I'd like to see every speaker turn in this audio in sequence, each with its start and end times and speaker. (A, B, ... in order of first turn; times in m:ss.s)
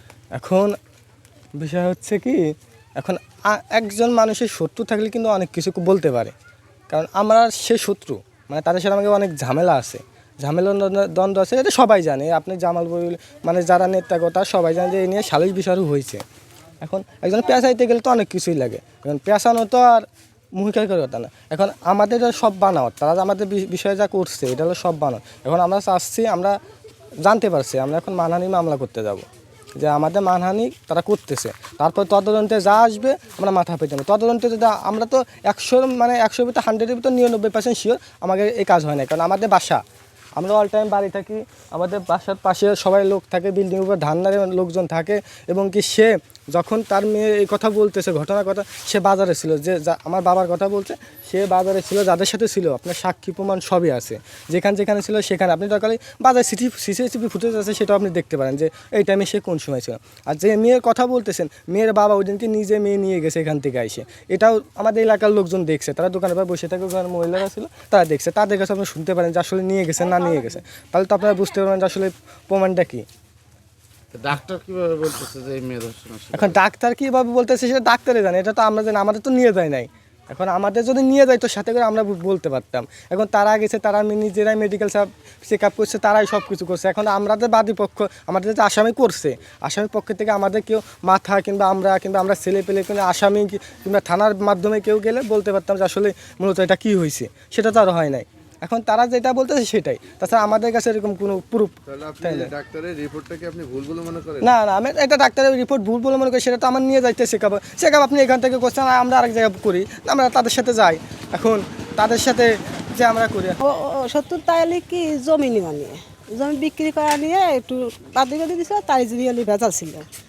0:00.4-0:00.8 A
0:01.6-0:06.3 A
0:06.9-0:16.2 A
0:16.8-0:26.6 A
0:27.2-0:29.2 A
0:29.8-0:39.8 A
0:40.4-1:13.1 A
1:14.1-1:16.6 B
1:16.3-1:42.5 A
1:41.9-1:44.5 C
1:44.4-1:53.6 A
1:53.6-2:00.1 D